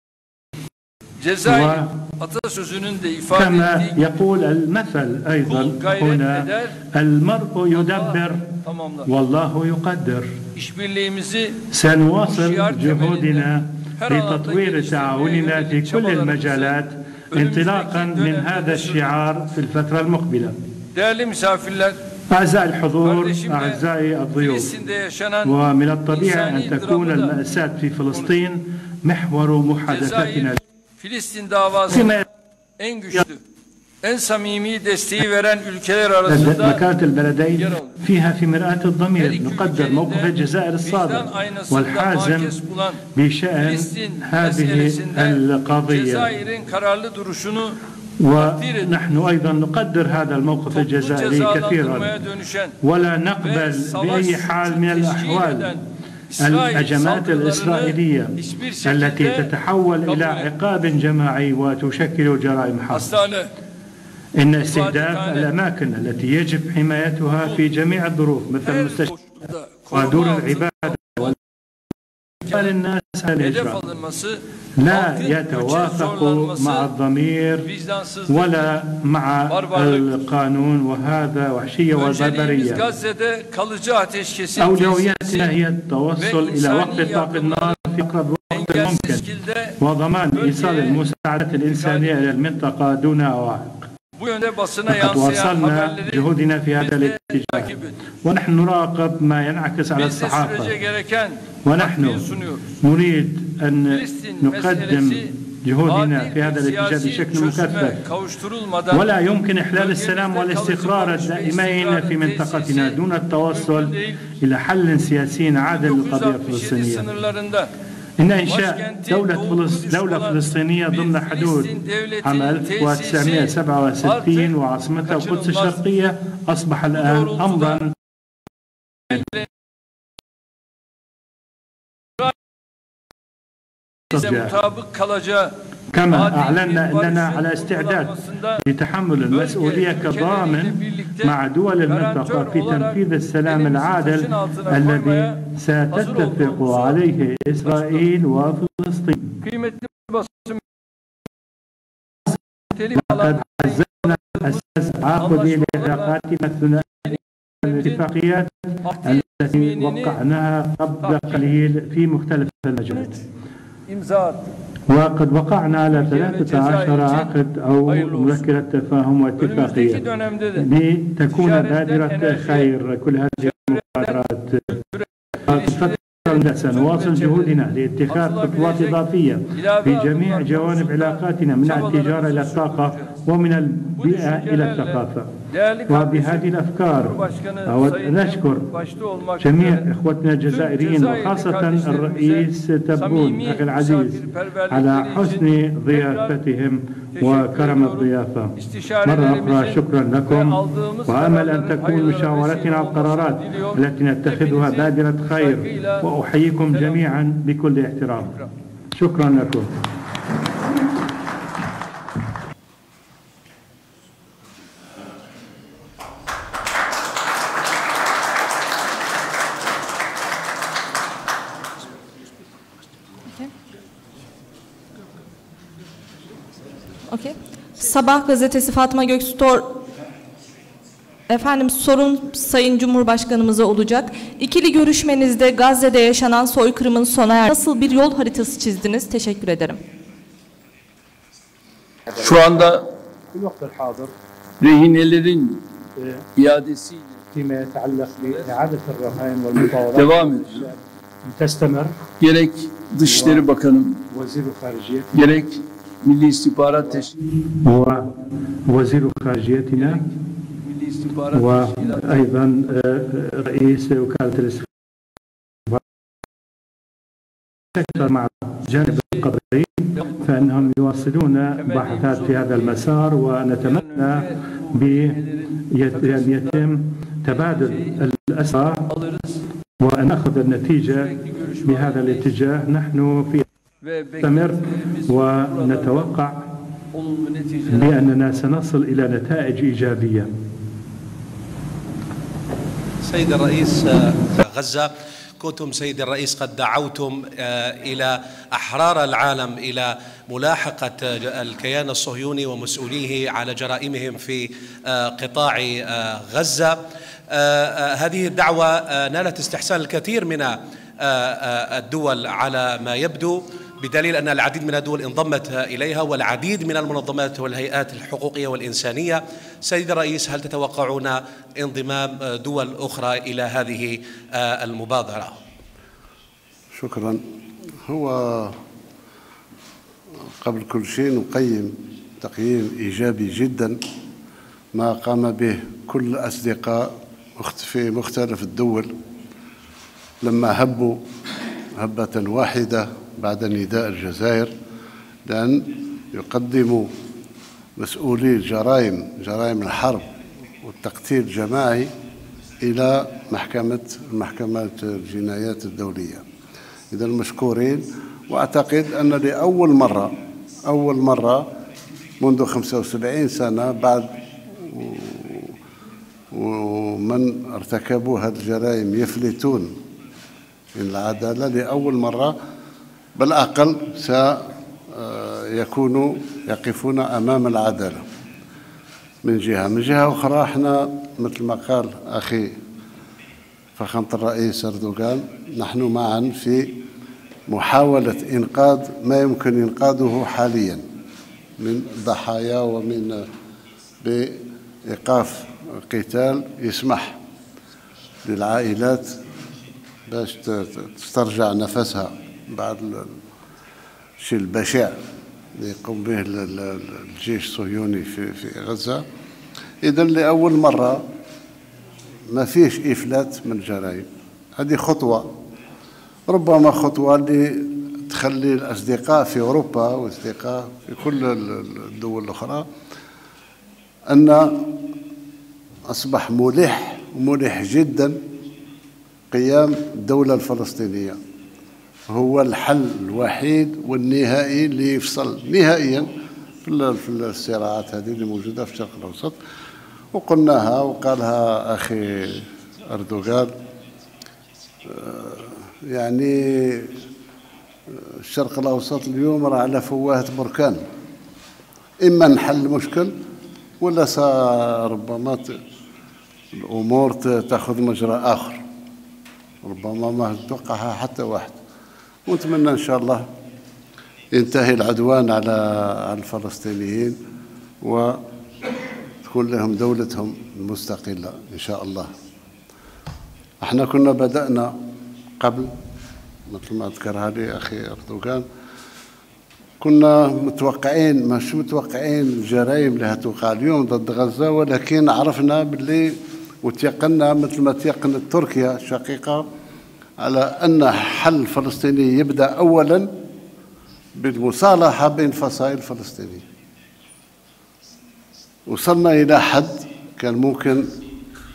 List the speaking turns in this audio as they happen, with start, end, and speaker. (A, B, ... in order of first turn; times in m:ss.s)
0:01.2-0:04.0 A
0:01.5-0:01.9 B
0:03.3-0:08.4 B
0:05.5-0:06.8 A
0:07.7-0:09.1 A
0:09.1-0:10.3 B
0:10.6-0:11.7 A
0:11.7-0:20.6 B
0:12.2-0:13.5 A
0:14.0-0:16.8 A
0:17.3-0:19.0 A
0:21.0-0:22.0 A
0:22.3-0:24.7 B
0:23.0-0:23.8 A
0:24.4-0:27.4 A
0:25.4-0:30.6 B
0:29.9-0:32.1 A
0:31.9-0:32.2 B
0:32.8-0:33.4 A
0:34.0-0:36.8 A
0:36.3-0:42.6 B
0:37.6-0:37.9 A
0:39.2-0:43.0 A
0:43.1-0:46.3 B
0:43.6-0:47.8 A
0:48.2-0:52.1 B
0:48.4-0:48.9 A
0:50.7-0:52.8 A
0:52.8-0:55.7 B
0:53.4-0:55.8 A
0:56.3-0:59.5 A
0:56.4-1:03.1 B
1:00.1-1:00.5 A
1:02.9-1:03.5 A
1:04.4-1:09.1 B
1:04.6-1:05.5 A
1:08.6-1:11.4 A
1:09.9-1:11.4 B
1:12.5-1:13.8 B
1:13.4-1:16.9 A
1:14.8-1:17.7 B
1:17.6-1:18.6 A
1:18.3-1:22.8 B
1:19.5-1:20.1 A
1:22.0-1:25.5 A
1:24.6-1:29.3 B
1:26.2-1:27.9 A
1:28.5-1:29.8 A
1:29.8-1:33.9 B
1:30.3-1:31.0 A
1:31.7-1:32.1 A
1:34.2-1:38.0 A
1:34.9-1:37.7 B
1:38.2-1:40.8 B
1:40.0-1:42.6 A
1:41.6-1:42.2 B
1:42.8-1:48.0 B
1:43.9-1:45.3 A
1:45.8-1:49.1 A
1:48.9-1:57.1 B
1:49.7-1:54.2 A
1:55.7-1:57.7 A
1:58.2-2:07.9 B
1:58.4-2:04.5 A
2:05.0-2:05.8 A
2:06.9-2:07.8 A
2:09.1-2:09.5 A
2:14.1-2:14.6 B
2:14.1-2:15.6 A
2:15.9-2:29.2 B
2:16.1-2:18.6 A
2:19.3-2:21.4 A
2:21.9-2:25.4 A
2:25.9-2:27.0 A
2:27.6-2:28.0 A
2:29.4-2:30.6 A
2:32.7-2:34.6 A
2:33.0-2:37.1 B
2:35.2-2:36.2 A
2:36.9-2:38.0 A
2:37.6-2:43.2 B
2:38.8-2:40.2 A
2:41.0-2:41.5 A
2:42.9-2:43.2 A
2:43.9-2:44.5 A
2:44.9-2:50.0 B
2:45.9-2:47.3 A
2:47.9-2:48.4 A
2:49.4-2:50.7 A
2:50.6-2:54.8 B
2:51.3-2:52.7 A
2:53.4-2:54.2 A
2:54.7-2:57.6 A
2:55.5-3:05.3 B
2:58.1-2:59.0 A
2:59.6-3:03.1 A
3:04.0-3:09.9 A
3:05.9-3:08.7 B
3:09.4-3:28.4 B
3:10.5-3:16.4 A
3:17.2-3:26.1 A
3:26.7-3:27.1 A
3:29.0-3:29.7 B
3:47.1-3:49.8 C
3:51.3-3:59.8 C
4:02.2-4:02.9 A
4:03.3-4:04.1 B
4:04.6-4:05.6 A
4:06.0-4:06.2 B
4:06.4-4:07.2 A
4:07.3-4:11.9 B
4:09.6-4:10.6 A
4:12.2-4:14.0 A
4:13.0-4:13.4 B
4:14.1-4:15.2 B
4:15.1-4:17.2 A
4:17.6-4:18.1 B
4:18.7-4:20.0 B
4:19.8-4:22.2 A
4:21.3-4:24.7 B
4:27.8-4:38.9 B
4:31.6-4:32.9 A
4:33.6-4:36.6 A
4:37.3-4:38.0 A
4:38.9-4:39.4 A
4:39.8-4:41.1 B
4:40.9-4:42.3 A
4:41.6-4:43.4 B
4:43.8-4:46.1 A
4:44.2-4:46.5 B
4:46.9-4:48.0 A
4:47.7-4:50.3 B
4:53.0-5:06.8 D
5:07.3-5:25.4 D
5:26.8-5:27.2 E
5:27.9-5:28.6 E
5:30.4-5:33.8 E
5:34.7-5:38.9 E
5:40.2-5:41.0 E
5:41.8-5:44.5 E
5:45.3-5:46.9 E
5:47.8-5:50.1 E
5:50.6-5:51.9 E
5:52.6-5:56.2 E
5:56.9-6:00.1 E
6:00.7-6:01.4 E
6:02.2-6:05.6 E
6:06.3-6:09.7 E
6:10.8-6:12.3 E
6:13.2-6:18.0 E
6:19.2-6:22.5 E
6:23.8-6:26.8 E
6:27.5-6:30.8 E
6:31.6-6:33.2 E
6:34.0-6:37.2 E
6:38.2-6:39.2 E
6:40.1-6:43.1 E
6:44.2-6:45.0 E
6:45.6-6:49.0 E
6:49.8-6:51.0 E
6:52.3-6:54.1 E
6:54.6-6:55.3 E
6:56.3-7:02.6 E
7:04.1-7:04.8 E
7:05.9-7:08.2 E
7:09.3-7:11.2 E
7:12.1-7:16.1 E
7:16.6-7:19.4 E
7:20.1-7:23.5 E
7:24.9-7:27.0 E
7:27.9-7:30.8 E
7:32.0-7:33.1 E
7:33.8-7:35.5 E
7:36.5-7:38.6 E
7:39.6-7:41.6 E
7:42.3-7:43.2 E
7:44.3-7:47.2 E
7:47.8-7:48.2 E
7:49.2-7:52.1 E
7:53.6-7:54.7 E
7:55.4-7:55.7 E
7:56.5-7:58.4 E
7:59.8-8:09.4 E
8:10.2-8:13.1 E
8:14.2-8:16.4 E
8:18.7-8:20.9 E